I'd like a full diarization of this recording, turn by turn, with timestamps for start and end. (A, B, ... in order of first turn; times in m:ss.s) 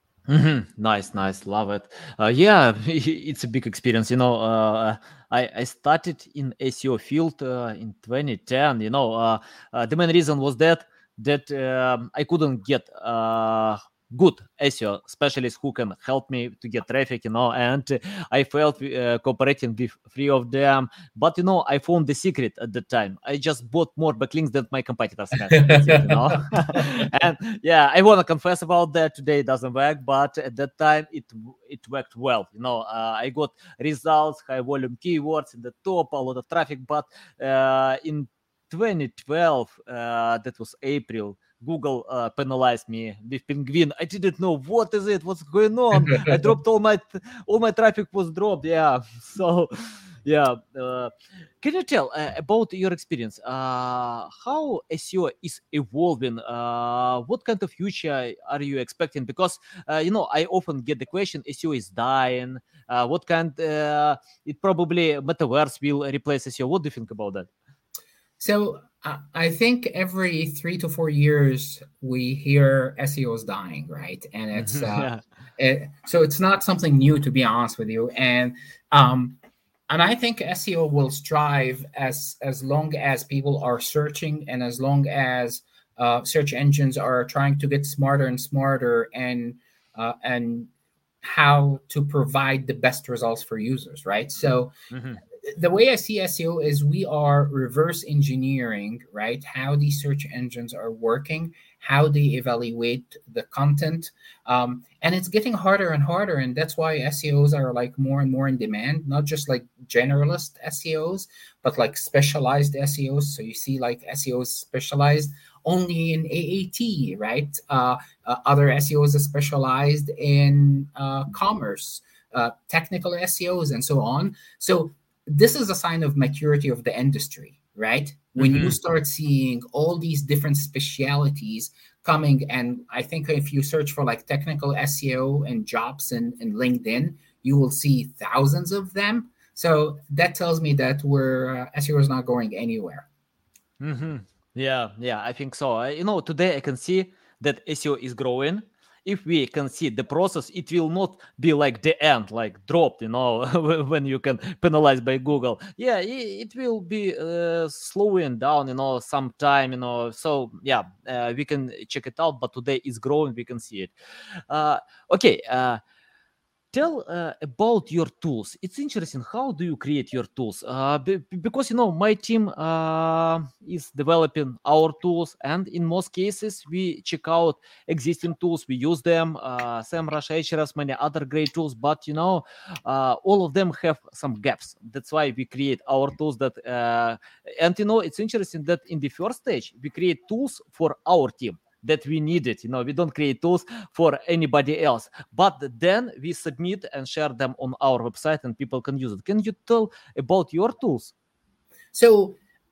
0:00.3-1:07.5 A
0:25.5-0:27.0 B
0:46.1-0:46.4 B
1:08.4-1:19.4 B
1:14.6-1:15.2 A
1:19.9-1:30.7 B
1:31.2-1:34.7 B
1:34.9-1:35.2 A
1:35.4-2:23.1 B
2:08.4-2:08.8 A
2:23.8-2:43.9 A
2:44.5-2:45.8 A
2:46.7-3:21.1 A
3:21.9-3:22.4 B